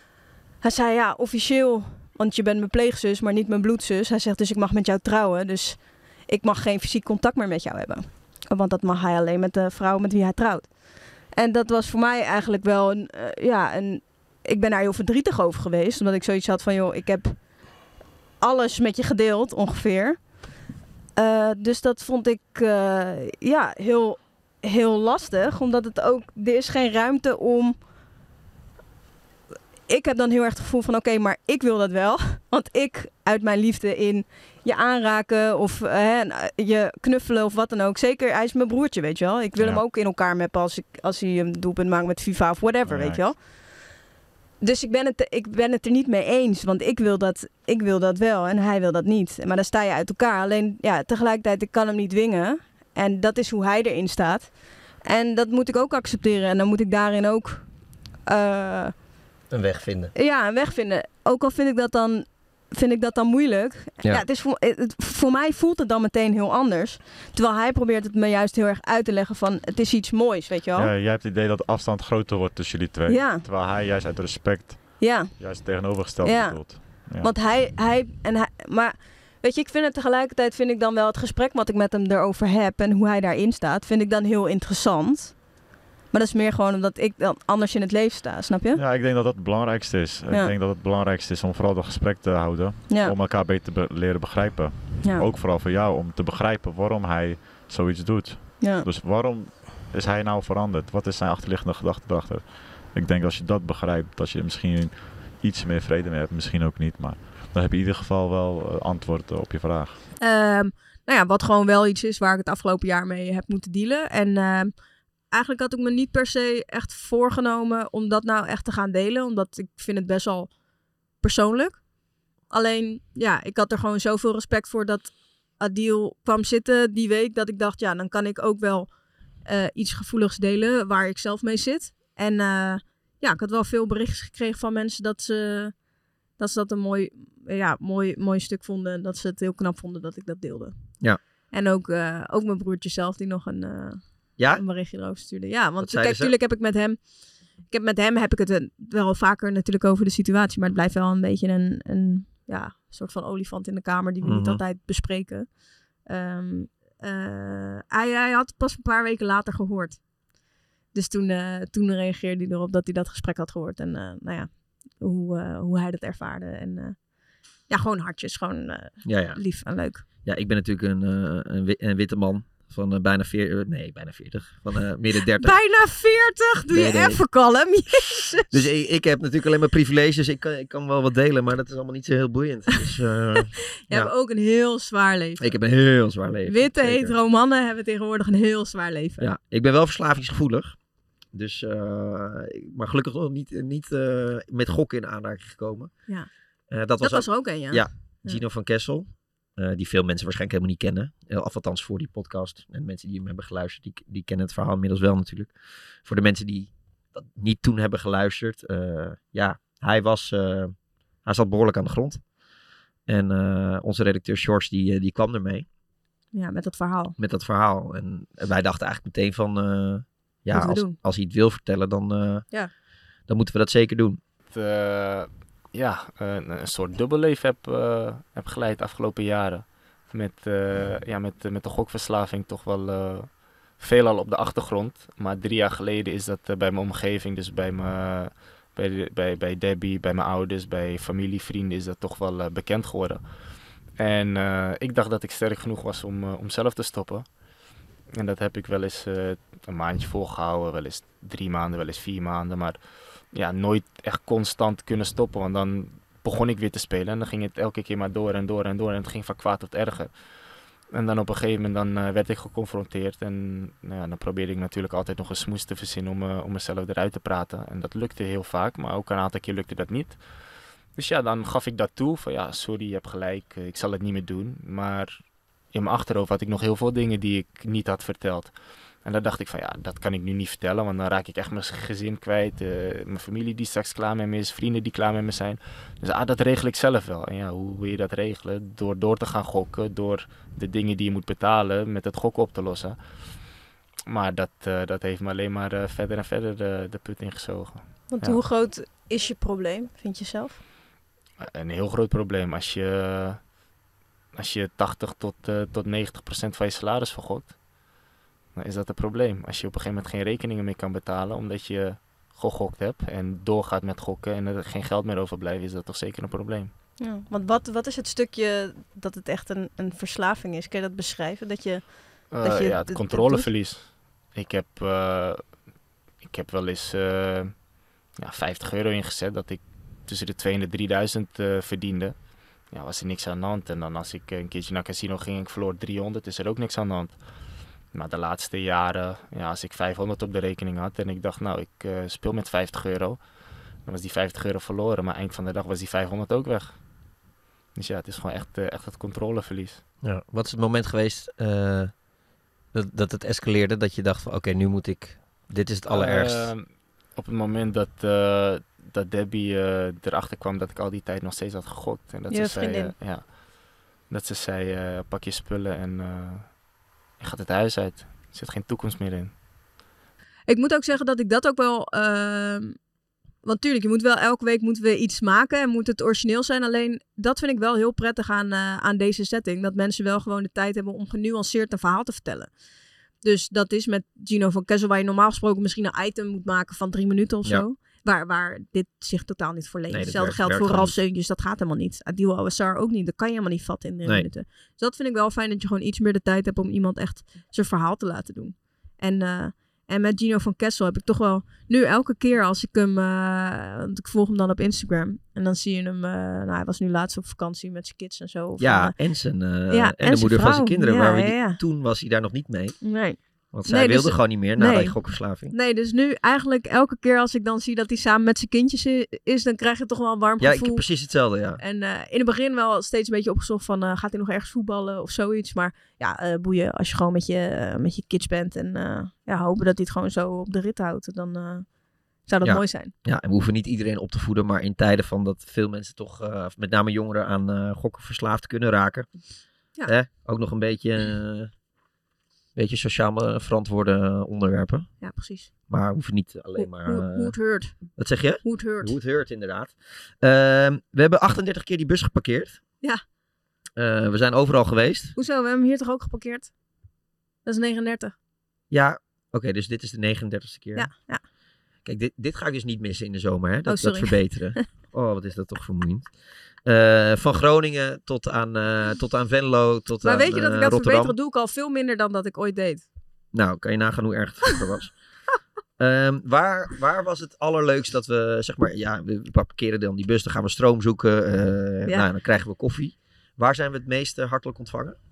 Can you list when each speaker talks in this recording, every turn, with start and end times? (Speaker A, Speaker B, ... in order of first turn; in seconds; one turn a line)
Speaker A: 0.6-17.4
Speaker A: 18.4-20.2
Speaker A: 21.1-27.8
Speaker A: 29.9-43.4
Speaker B: 42.9-43.2
Speaker A: 44.6-57.7
Speaker A: 58.2-58.9
Speaker C: 59.5-60.1
Speaker A: 60.1-70.9
Speaker B: 70.7-77.3
Speaker A: 73.1-73.4
Speaker A: 75.0-75.6
Speaker A: 76.2-85.4
Speaker A: 86.1-88.8
Speaker B: 88.7-110.0
Speaker A: 98.6-98.8
Speaker A: 110.2-114.7
Speaker A: 115.3-120.5
Speaker A: 121.2-121.8
Speaker A: 122.5-128.9
Speaker A: 129.4-135.8
Speaker A: 136.4-140.7
Speaker A: 141.5-147.0
Speaker C: 144.4-144.6
Speaker C: 145.8-146.3
Speaker A: 147.7-160.0
Speaker C: 154.2-154.6
Speaker A: 160.9-167.0
Speaker A: 167.7-170.0
Speaker C: 169.0-169.4
Speaker C: 170.2-175.6
Speaker A: 175.4-178.5
Speaker C: 176.7-177.2
Speaker C: 178.5-184.1
Speaker A: 183.9-185.5
Speaker C: 185.4-187.1
Speaker A: 186.4-189.3
Speaker C: 189.2-190.8
Speaker C: 191.3-195.9
Speaker C: 196.7-205.5
Speaker A: 197.0-198.4
Speaker C: 206.0-212.2
Speaker C: 213.1-215.7
Speaker A: 216.3-217.1
Speaker C: 217.2-222.5
Speaker A: 220.5-221.0
Speaker C: 223.3-224.2
Speaker D: 224.5-243.3
Speaker D: 243.9-247.3
Speaker D: 248.1-260.2
Speaker D: 260.9-270.2
Speaker D: 270.9-293.0
Speaker D: 294.1-298.4
Speaker A: 298.1-300.6
Speaker D: 301.4-303.4
Speaker D: 304.3-307.6
Speaker D: 308.5-316.7
Speaker A: 317.0-323.5
Speaker D: 322.3-325.5
Speaker D: 326.2-327.6
Speaker D: 328.1-337.2
Speaker D: 337.9-343.2
Speaker D: 343.8-346.9
Speaker D: 347.7-349.8
Speaker C: 350.0-352.0
Speaker C: 352.7-356.5
Speaker D: 355.9-366.6
Speaker A: 362.3-362.9
Speaker D: 367.2-369.3
Speaker A: 370.5-372.8
Speaker A: 373.4-382.5
Speaker A: 383.2-408.9
Speaker C: 389.9-391.0
Speaker C: 408.6-412.8
Speaker A: 409.7-411.6
Speaker A: 412.8-414.9
Speaker C: 413.5-415.5
Speaker A: 415.5-420.8
Speaker C: 420.4-421.6
Speaker A: 421.6-431.6
Speaker A: 432.3-432.9
Speaker C: 432.4-439.1
Speaker C: 439.9-441.5
Speaker C: 442.6-444.9
Speaker A: 445.0-445.5
Speaker C: 445.7-447.3
Speaker A: 446.6-447.8
Speaker C: 447.9-452.6
Speaker A: 448.4-448.9
Speaker C: 453.8-455.1
Speaker A: 455.1-456.5
Speaker A: 457.4-458.1
Speaker C: 458.7-460.9
Speaker A: 460.8-461.2
Speaker C: 461.8-466.1
Speaker A: 463.6-464.6
Speaker C: 466.6-471.1
Speaker A: 470.0-472.8
Speaker C: 473.3-474.9
Speaker C: 475.8-485.0